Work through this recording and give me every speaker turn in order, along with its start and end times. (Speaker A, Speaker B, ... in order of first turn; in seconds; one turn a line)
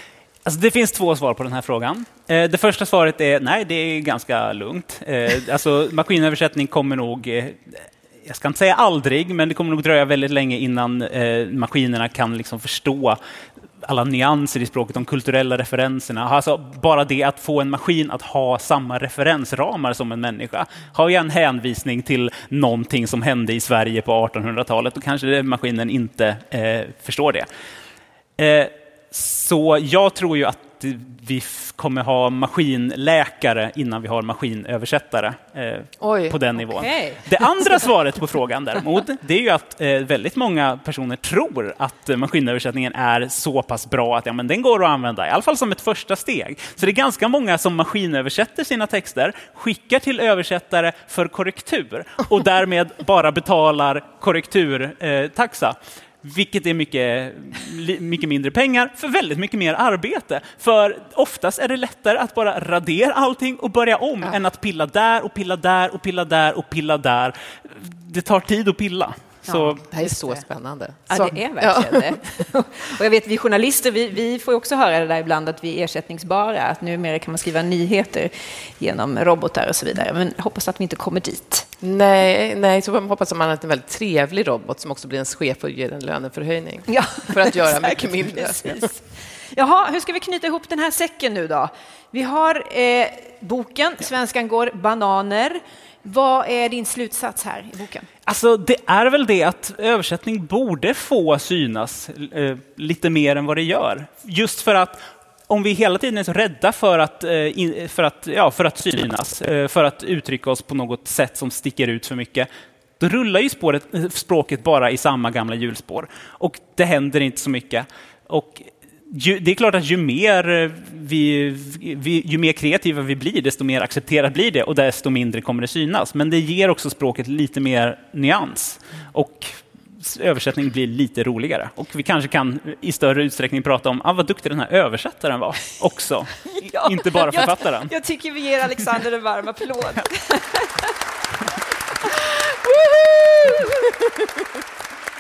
Speaker A: 0.5-13.2
Speaker A: 13.8-27.5
Speaker A: 28.4-69.8
Speaker B: 36.0-36.4
Speaker C: 36.6-37.2
Speaker C: 69.5-70.4
Speaker B: 69.8-72.2
Speaker C: 71.1-81.7
Speaker B: 81.8-88.9
Speaker C: 86.9-98.1
Speaker A: 98.3-137.9
Speaker C: 136.6-140.9
Speaker C: 142.0-144.2